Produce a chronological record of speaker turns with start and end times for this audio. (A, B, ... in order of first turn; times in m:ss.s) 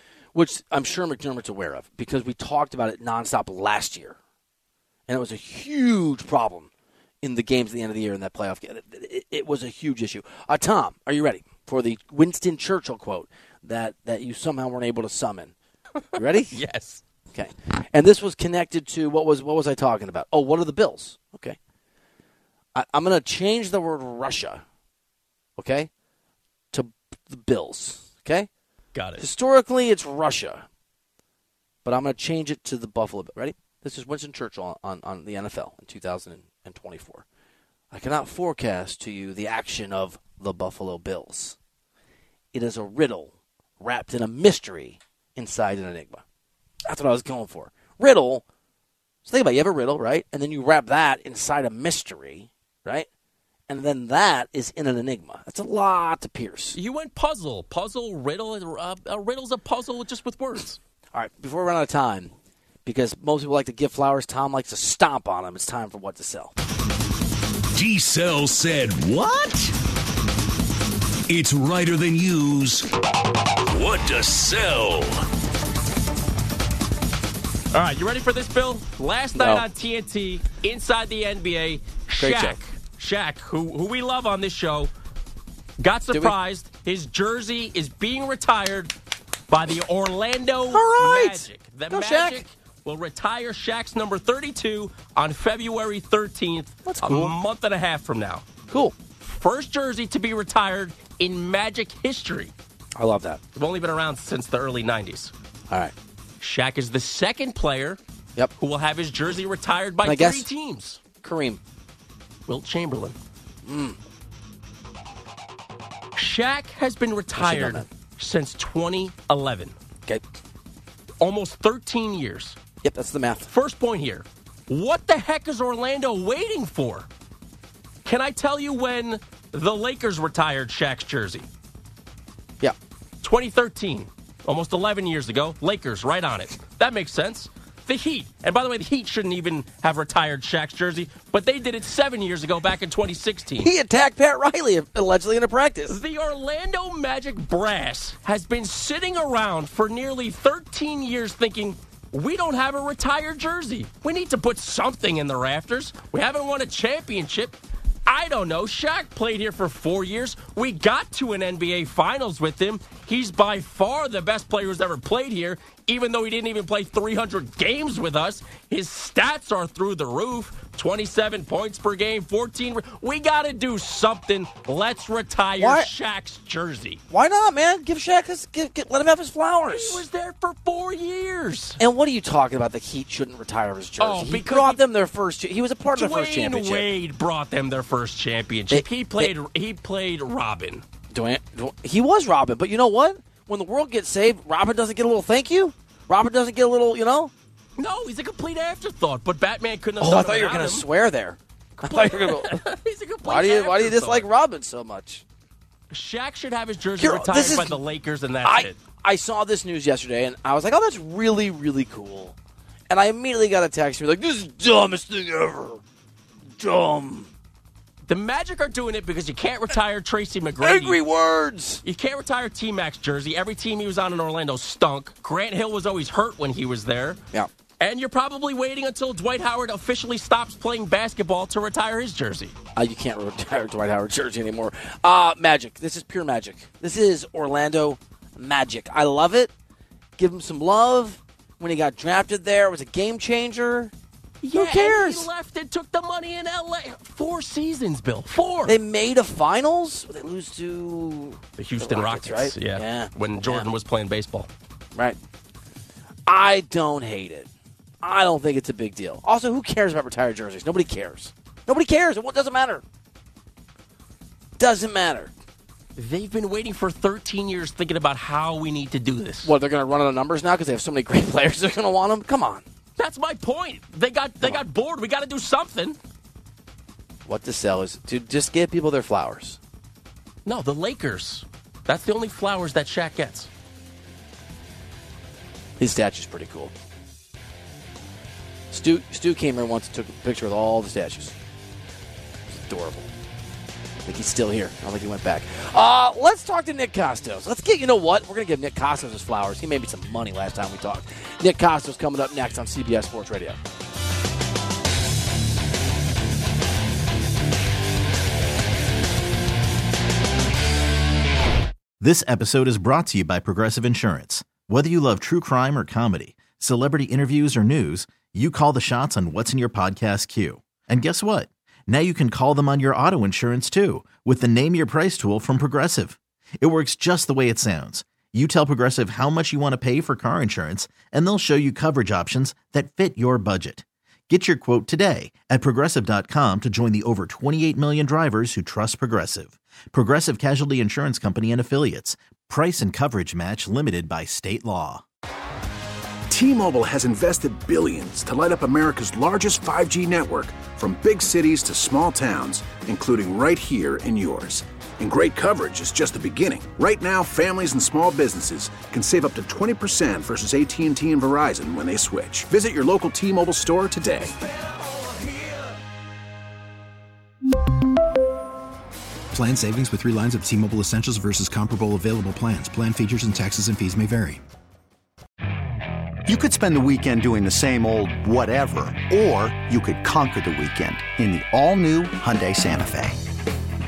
0:00.4-0:04.2 A
0:05.1-0:06.7 A
0:07.2-0:15.5 A
0:16.1-0:16.6 A
0:16.5-0:17.0 B
0:17.3-0:21.6 A
0:22.8-0:24.6 A
0:25.6-0:25.9 A
0:26.7-0:28.5 A
0:28.9-0:29.3 B
0:29.2-0:30.7 A
0:31.8-0:37.2 A
0:37.9-0:41.6 A
0:42.5-0:46.2 A
0:46.9-0:48.4 A
0:49.3-0:53.1 A
0:53.7-0:56.8 A
0:56.8-1:00.8 B
1:01.1-1:02.3 A
1:02.8-1:06.6 A
1:07.8-1:09.7 C
1:11.3-1:12.9 C
1:13.7-1:15.2 C
1:17.7-1:24.9 B
1:19.4-1:19.6 A
1:22.2-1:22.6 A
1:25.8-1:28.9 B
1:29.5-1:38.4 B
1:30.7-1:32.4 A
1:36.8-1:37.4 A
1:38.7-1:39.0 A
1:39.2-1:42.5 B
1:43.0-1:43.4 A
1:43.6-1:45.3 B
1:46.4-1:48.0 B
1:48.6-1:51.0 B
1:50.0-1:50.4 A
1:51.2-1:51.6 A
1:52.5-1:53.2 B
1:53.6-1:54.0 A
1:56.2-1:59.8 B
1:57.4-1:57.9 A
2:01.2-2:02.6 B
2:02.8-2:03.5 A
2:03.5-2:07.1 B
2:08.0-2:11.5 B
2:13.2-2:23.7 B
2:23.6-2:26.0 A
2:25.9-2:57.0 B
2:55.6-2:55.9 A
2:57.1-3:00.0 A
2:59.7-3:01.8 B
3:01.8-3:06.9 A
3:04.0-3:04.8 B
3:05.9-3:10.8 B
3:08.7-3:09.3 A
3:11.1-3:17.3 A
3:17.8-3:20.9 B
3:20.0-3:22.6 A
3:21.8-3:24.3 B
3:23.2-3:25.2 A
3:25.9-3:28.8 B
3:27.0-3:27.8 A
3:28.4-3:32.4 A
3:32.9-3:35.8 A
3:36.6-3:37.3 A
3:38.1-3:41.0 B
3:40.6-3:41.8 A
3:41.8-3:47.2 B
3:47.8-3:52.6 B
3:52.8-3:59.5 A
4:00.2-4:03.9 A
4:04.4-4:08.8 B
4:04.5-4:05.3 A
4:08.7-4:13.7 A
4:11.6-4:14.5 B
4:16.3-4:17.5 A
4:18.0-4:22.8 A
4:24.6-4:25.3 A
4:26.0-4:29.5 B
4:29.4-4:32.6 A
4:33.0-4:36.0 B
4:37.3-4:39.6 A
4:40.4-4:43.5 B
4:45.8-4:46.7 A
4:48.7-4:51.4 A
4:52.5-4:53.1 A
4:54.1-5:03.6 A
5:12.0-5:45.0 D
5:46.3-6:04.4 E
6:09.3-6:14.4 F
6:16.3-6:23.2 G